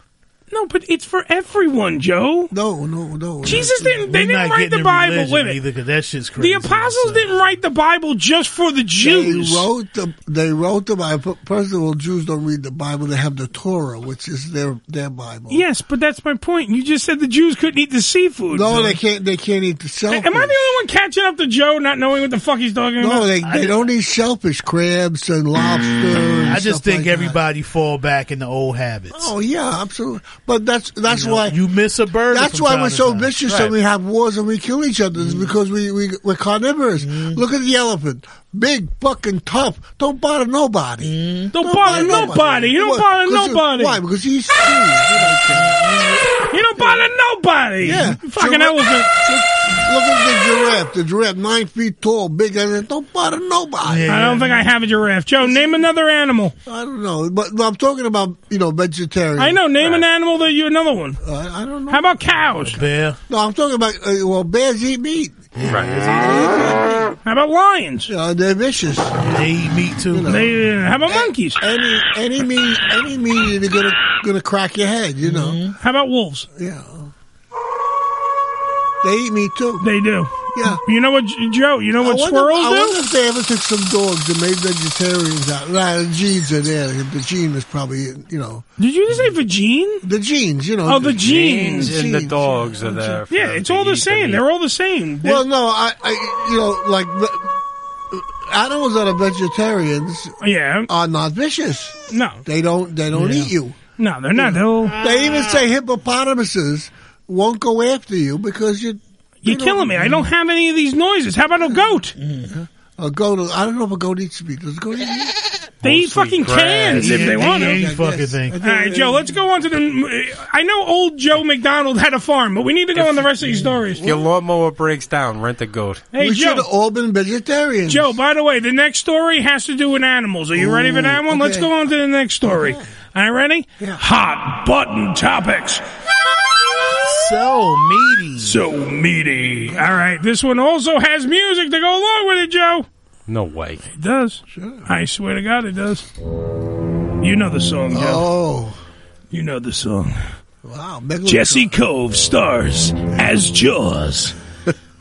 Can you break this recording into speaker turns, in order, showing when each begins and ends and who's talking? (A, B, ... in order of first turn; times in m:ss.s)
0:00.5-0:02.5 A
0:02.5-0:04.0 B
0:03.4-0:05.6 A
0:04.1-0:07.4 C
0:06.4-0:09.6 A
0:09.0-0:15.6 B
0:15.5-0:19.0 A
0:18.5-0:20.6 B
0:20.1-0:23.2 A
0:23.0-0:27.4 B
0:23.4-0:23.8 C
0:26.4-0:29.3 C
0:29.1-0:31.6 B
0:31.1-0:33.6 C
0:32.3-0:45.8 B
0:35.2-0:35.5 C
0:37.0-0:37.4 C
0:41.0-0:42.4 C
0:41.5-0:44.0 A
0:45.6-0:46.1 C
0:46.5-0:49.1 A
0:47.8-0:54.1 B
0:53.8-0:54.7 C
0:54.1-0:56.5 A
0:55.4-0:55.8 B
0:56.6-0:59.6 B
0:59.4-1:01.2 A
1:01.2-1:02.1 B
1:01.9-1:02.8 A
1:02.6-1:03.2 C
1:03.3-1:05.5 B
1:05.6-1:06.6 C
1:06.0-1:07.1 B
1:07.2-1:08.1 A
1:08.1-1:09.2 B
1:09.2-1:10.4 C
1:10.1-1:10.5 B
1:10.3-1:11.6 A
1:11.1-1:15.6 B
1:15.2-1:15.7 C
1:15.8-1:16.5 A
1:16.5-1:17.1 B
1:19.0-1:19.8 B
1:19.8-1:23.0 A
1:20.5-1:20.8 B
1:22.0-1:28.6 B
1:28.8-1:30.0 A
1:30.0-1:33.2 B
1:30.9-1:31.9 A
1:31.2-1:34.4 D
1:33.3-1:35.4 A
1:35.2-1:37.5 B
1:38.1-1:40.3 B
1:40.4-1:40.9 A
1:40.9-1:43.8 B
1:42.1-1:42.4 A
1:43.1-1:43.5 C
1:44.0-1:44.9 A
1:44.4-1:50.2 B
1:44.8-1:45.6 C
1:49.4-1:52.1 A
1:52.2-1:52.5 C
1:52.5-1:55.4 B
1:55.8-1:57.5 D
1:55.8-1:57.8 A
1:57.0-1:59.4 B
1:57.0-1:58.6 C
1:58.6-2:04.0 A
2:02.9-2:03.3 D
2:04.0-2:06.0 D
2:06.1-2:06.6 A
2:06.2-2:08.2 B
2:07.9-2:15.8 A
2:10.6-2:11.7 B
2:12.4-2:12.9 B
2:17.0-2:18.6 C
2:18.4-2:22.9 A
2:23.3-2:23.9 D
2:23.9-2:26.0 A
2:24.5-2:24.8 B
2:27.2-2:28.3 A
2:27.9-2:28.8 B
2:29.3-2:29.7 A
2:29.5-2:30.0 E
2:30.6-2:31.8 B
2:31.3-2:31.9 A
2:31.7-2:34.3 E